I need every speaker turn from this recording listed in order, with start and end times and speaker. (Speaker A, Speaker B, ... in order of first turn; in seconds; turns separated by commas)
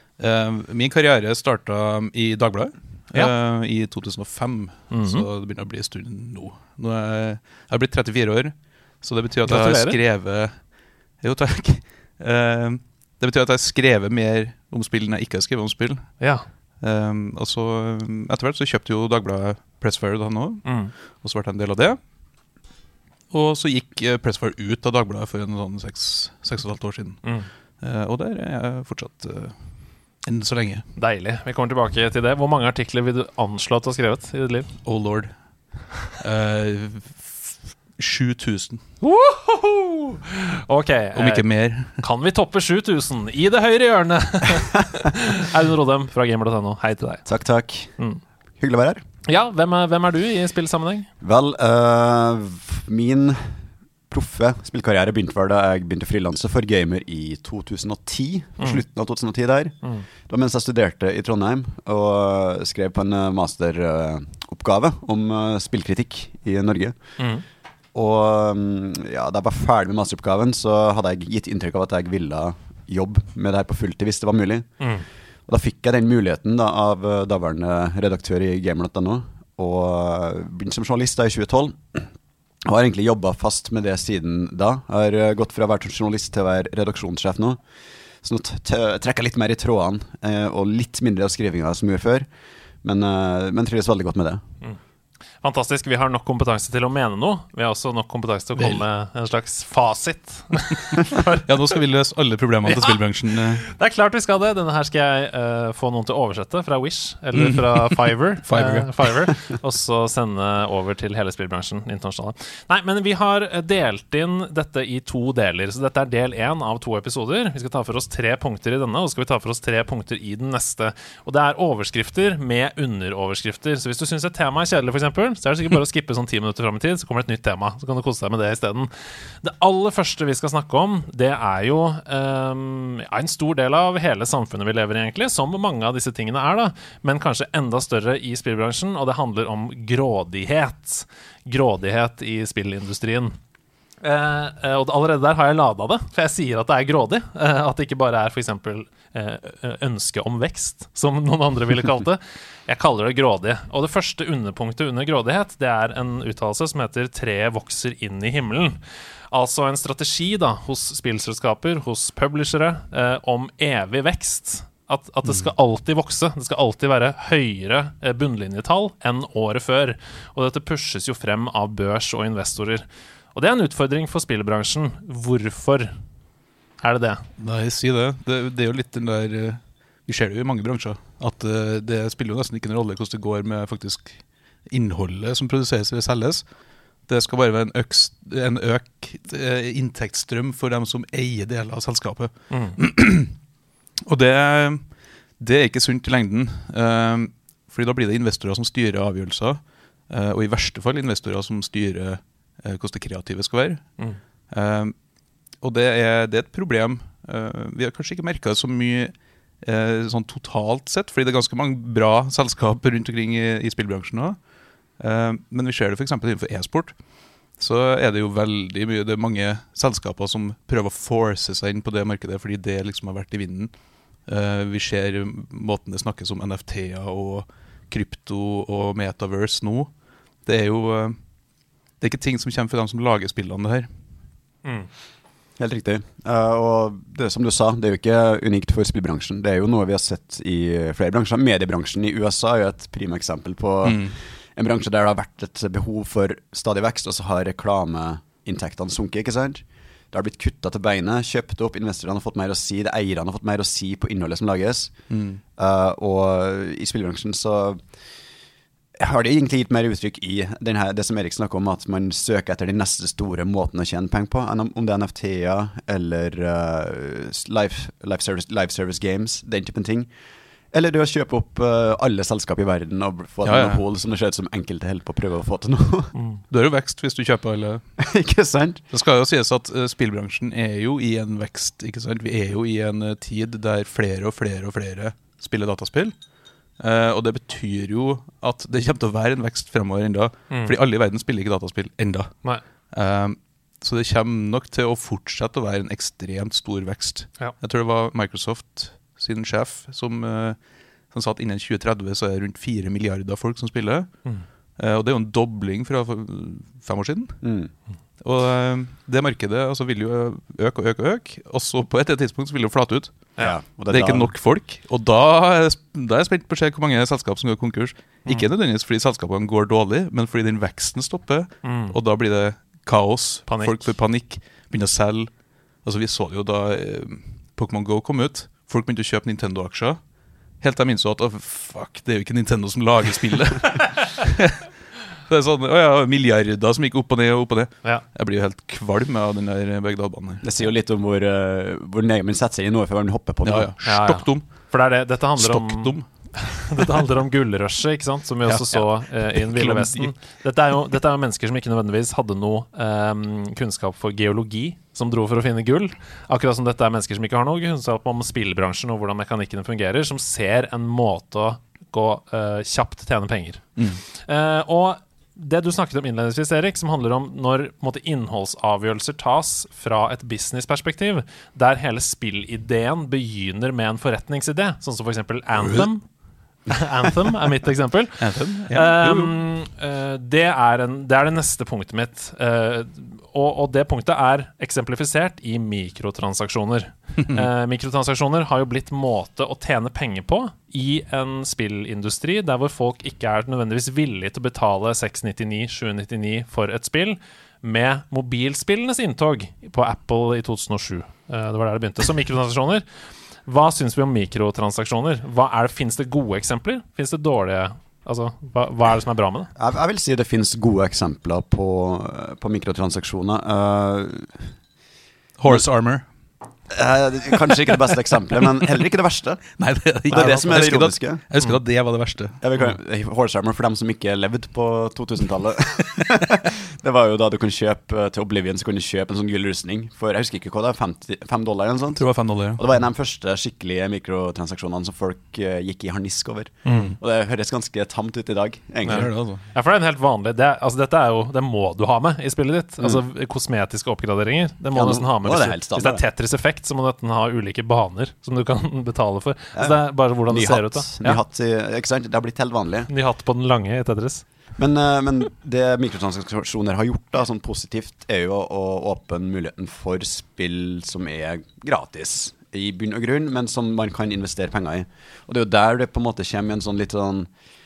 Speaker A: 0.2-16.2, Speaker B: 4.9-5.2, Speaker B: 9.4-10.0, Speaker B: 16.2-16.4, Speaker A: 16.8-22.0, Speaker B: 20.6-20.9, Speaker A: 23.3-29.7, Speaker B: 27.2-27.5, Speaker A: 30.2-30.9, Speaker B: 30.9-34.7, Speaker A: 34.8-35.4, Speaker A: 36.1-38.8, Speaker B: 39.0-47.3, Speaker A: 41.1-42.0, Speaker C: 47.2-47.9, Speaker C: 48.6-49.0, Speaker B: 49.2-51.1, Speaker C: 51.2-67.0, Speaker B: 67.2-67.4, Speaker C: 67.9-74.7, Speaker B: 74.8-75.0, Speaker C: 75.5-82.1, Speaker C: 82.6-87.6, Speaker C: 88.2-92.3, Speaker C: 92.8-94.4, Speaker B: 95.4-101.5, Speaker A: 98.6-98.8, Speaker A: 101.3-103.6, Speaker B: 102.7-143.4, Speaker A: 107.4-109.1, Speaker B: 144.0-158.8, Speaker B: 159.3-176.0, Speaker B: 176.8-177.3, Speaker A: 177.4-186.5, Speaker A: 187.0-193.4, Speaker B: 192.5-192.8, Speaker A: 194.1-204.9, Speaker A: 205.6-214.4, Speaker A: 215.0-217.0, Speaker A: 217.5-229.9, Speaker A: 230.4-231.2, Speaker A: 232.0-233.9, Speaker B: 234.6-234.9, Speaker C: 235.6-254.9, Speaker A: 243.8-244.2, Speaker A: 255.1-255.4, Speaker C: 255.6-257.8, Speaker C: 259.0-270.1, Speaker C: 270.7-276.1, Speaker A: 273.4-273.8, Speaker B: 276.1-276.4, Speaker A: 276.5-278.1, Speaker C: 278.0-278.8, Speaker A: 278.9-286.2, Speaker A: 286.8-304.2, Speaker B: 290.5-290.7, Speaker A: 304.8-307.4, Speaker C: 307.4-307.7, Speaker A: 308.2-330.0, Speaker C: 313.4-314.3, Speaker B: 321.6-321.9, Speaker B: 323.5-323.8, Speaker A: 330.6-334.7, Speaker A: 335.2-340.4, Speaker C: 340.4-343.7, Speaker A: 343.4-344.7, Speaker B: 343.8-376.1, Speaker A: 345.4-346.8, Speaker A: 348.4-350.1, Speaker A: 375.6-375.9, Speaker B: 376.7-402.8, Speaker A: 378.2-379.4, Speaker A: 387.2-387.5, Speaker B: 403.4-409.5, Speaker C: 409.6-414.5, Speaker A: 415.4-416.0, Speaker C: 416.7-421.2, Speaker A: 417.5-417.8, Speaker A: 419.6-422.4, Speaker B: 420.1-420.5, Speaker C: 422.4-439.1, Speaker A: 432.0-432.6, Speaker B: 436.6-436.9, Speaker A: 436.6-436.9, Speaker B: 438.8-451.2, Speaker A: 438.9-439.4, Speaker C: 444.7-446.0, Speaker C: 449.5-452.9, Speaker B: 452.9-454.2, Speaker C: 454.6-467.3